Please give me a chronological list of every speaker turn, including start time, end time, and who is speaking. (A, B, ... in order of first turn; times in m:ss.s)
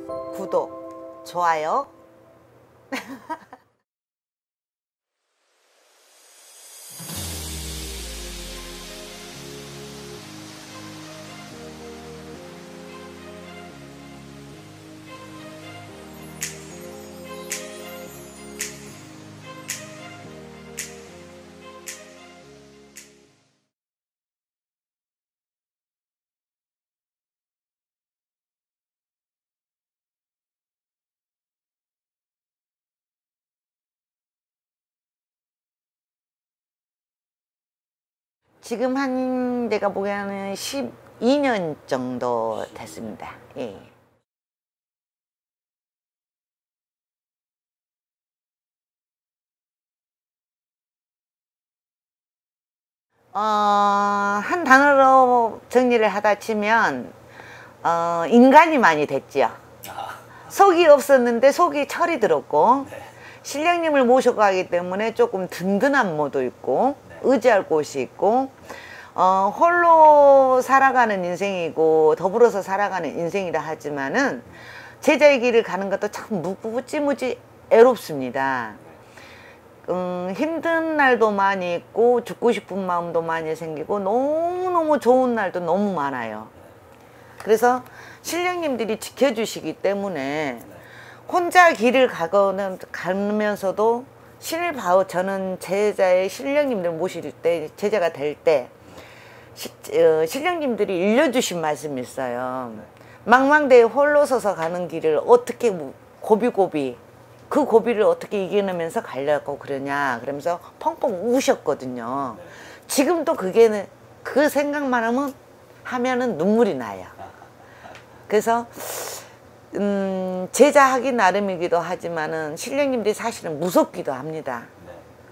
0:00.3-0:01.9 A
0:02.9-0:03.4 A
0:38.6-0:43.9 A
0:53.3-0:57.1 A
0:57.8-0:59.6 A
1:00.5-1:08.6 A
1:09.1-1:14.5 A
1:15.0-1:18.8 A
1:19.9-1:26.5 A
1:27.4-1:38.7 A
1:39.6-1:57.2 A
1:58.3-2:04.7 A